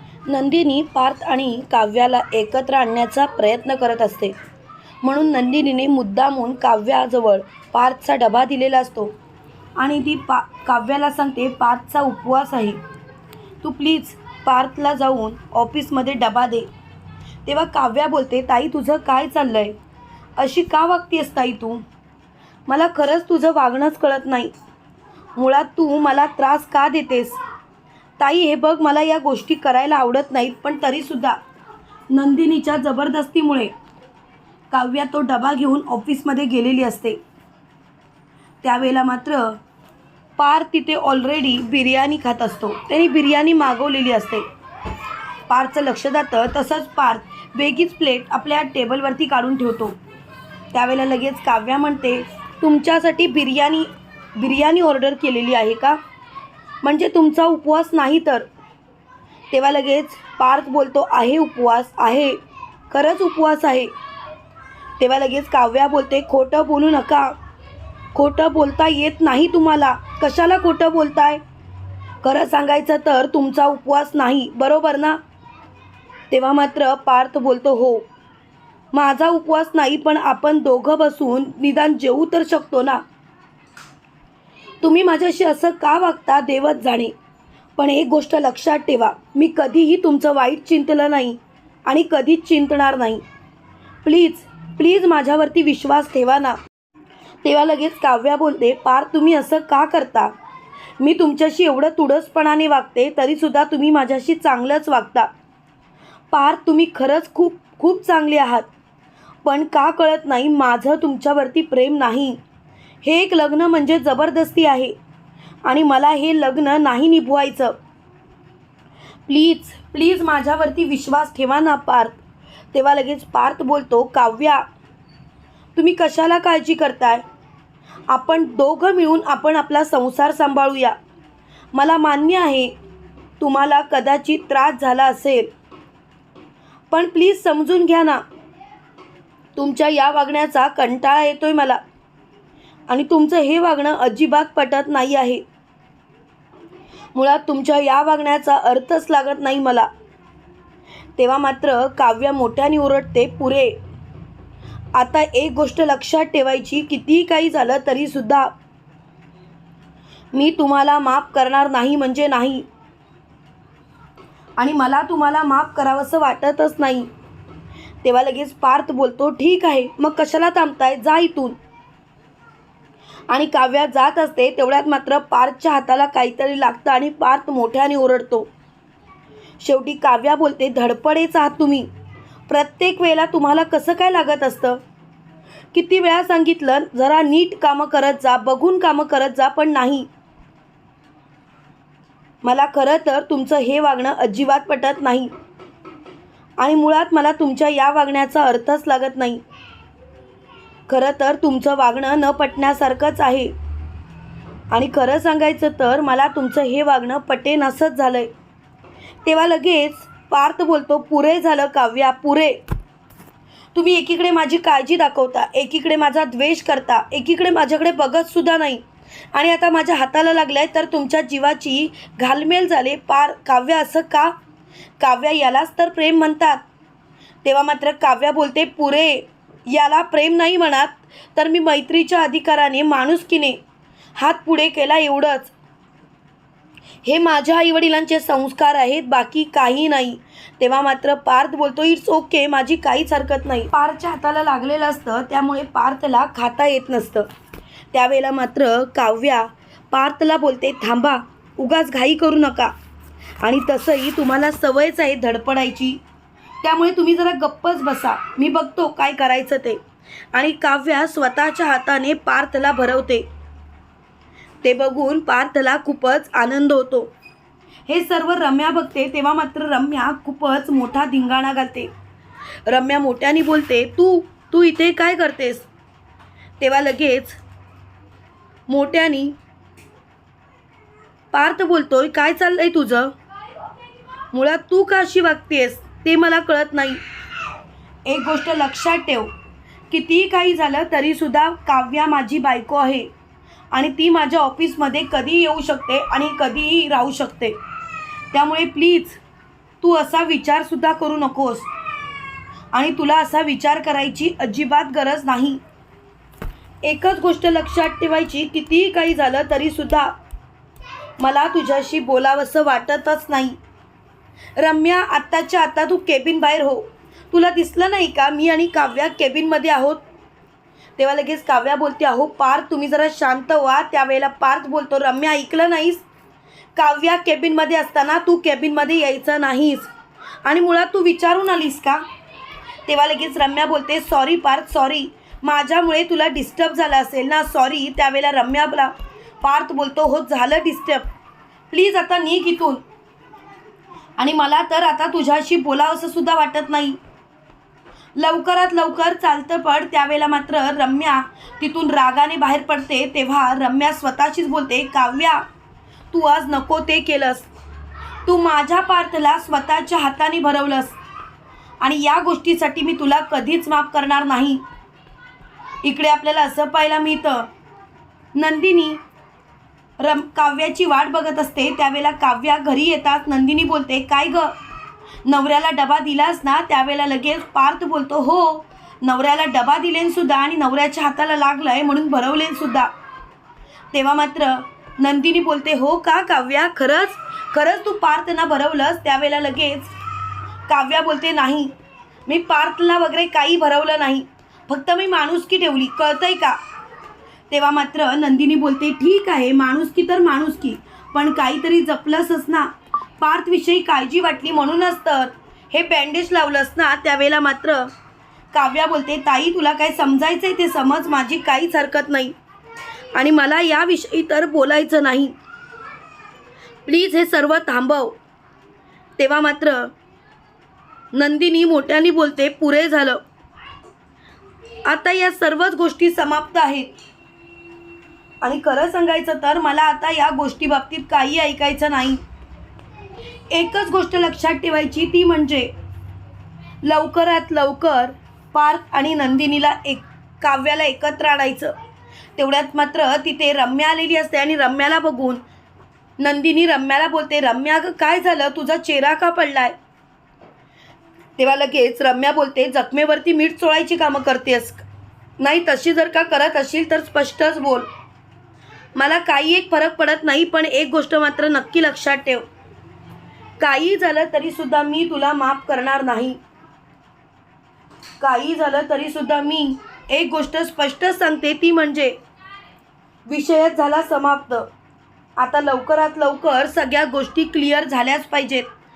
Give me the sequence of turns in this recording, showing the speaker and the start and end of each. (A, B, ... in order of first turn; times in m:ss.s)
0:00.3-0:04.3 A
0:05.0-0:09.1 A
0:09.8-0:12.8 A
0:13.6-0:16.7 A
0:17.4-0:19.7 A
0:20.4-0:21.8 A
0:22.7-0:24.5 A
0:25.4-0:27.4 A
0:28.2-0:31.4 A
0:32.1-0:33.7 A
0:34.7-0:37.2 A
0:38.6-0:39.6 A
0:40.4-0:44.4 A
0:45.5-0:50.0 A
0:50.7-0:56.0 A
0:56.8-0:58.5 A
0:59.5-1:02.4 A
1:02.9-1:03.9 A
1:05.0-1:07.3 A
1:08.1-1:11.4 A
1:12.2-1:15.2 A
1:16.3-1:18.0 A
1:18.9-1:23.0 A
1:24.8-1:27.1 A
1:27.8-1:33.2 A
1:34.0-1:36.6 A
1:37.4-1:40.3 A
1:41.0-1:45.3 A
1:46.3-1:48.7 A
1:49.4-1:52.4 A
1:53.0-1:54.9 A
1:55.6-1:57.8 A
1:59.3-2:02.2 A
2:02.7-2:04.6 A
2:05.8-2:07.2 A
2:08.1-2:11.0 A
2:11.7-2:12.7 A
2:13.4-2:15.5 A
2:16.9-2:18.2 A
2:19.6-2:21.8 A
2:22.9-2:25.4 A
2:27.1-2:29.9 A
2:31.2-2:33.8 A
2:34.9-2:38.5 A
2:40.3-2:42.6 A
2:44.6-2:47.1 A
2:48.0-2:51.6 A
2:53.3-2:58.5 A
2:59.6-3:01.9 A
3:02.5-3:04.8 A
3:05.7-3:10.1 A
3:12.4-3:15.3 A
3:16.6-3:19.4 A
3:20.9-3:23.5 A
3:24.7-3:28.3 A
3:29.2-3:32.6 A
3:33.7-3:44.3 A
3:45.0-3:46.6 A
3:47.4-3:53.6 A
3:54.2-3:55.5 A
3:57.0-4:07.3 A
4:07.9-4:12.7 A
4:13.4-4:16.0 A
4:16.6-4:19.8 A
4:20.3-4:23.2 A
4:24.6-4:27.1 A
4:27.9-4:31.9 A
4:32.7-4:35.7 A
4:36.6-4:37.4 A
4:38.7-4:39.4 A
4:41.3-4:43.1 A
4:44.3-4:47.0 A
4:48.0-4:49.3 A
4:49.9-4:53.1 A
4:53.7-4:57.6 A
4:58.3-4:59.2 A
4:59.8-5:01.7 A
5:02.7-5:05.6 A
5:06.8-5:10.1 A
5:11.2-5:13.6 A
5:14.6-5:20.0 A
5:21.0-5:26.0 A
5:26.8-5:29.9 A
5:30.4-5:32.0 A
5:32.8-5:41.1 A
5:41.7-5:42.8 A
5:44.2-5:47.0 A
5:48.2-5:55.4 A
5:56.1-5:57.5 A
5:58.2-6:01.0 A
6:01.8-6:04.6 A
6:05.8-6:07.5 A
6:08.3-6:09.0 A
6:10.0-6:14.6 A
6:15.2-6:22.9 A
6:23.9-6:29.9 A
6:30.7-6:31.7 A
6:32.3-6:36.6 A
6:37.5-6:47.9 A
6:48.5-6:52.3 A
6:53.1-6:55.3 A
6:56.8-6:58.2 A
6:59.2-6:59.9 A
7:01.1-7:03.2 A
7:04.8-7:06.9 A
7:08.4-7:12.2 A
7:13.5-7:15.7 A
7:16.8-7:21.7 A
7:22.4-7:25.4 A
7:26.2-7:29.7 A
7:31.4-7:34.8 A
7:35.4-7:37.9 A
7:39.0-7:42.4 A
7:43.6-7:46.4 A
7:48.2-7:52.2 A
7:53.3-7:54.7 A
7:55.4-7:58.7 A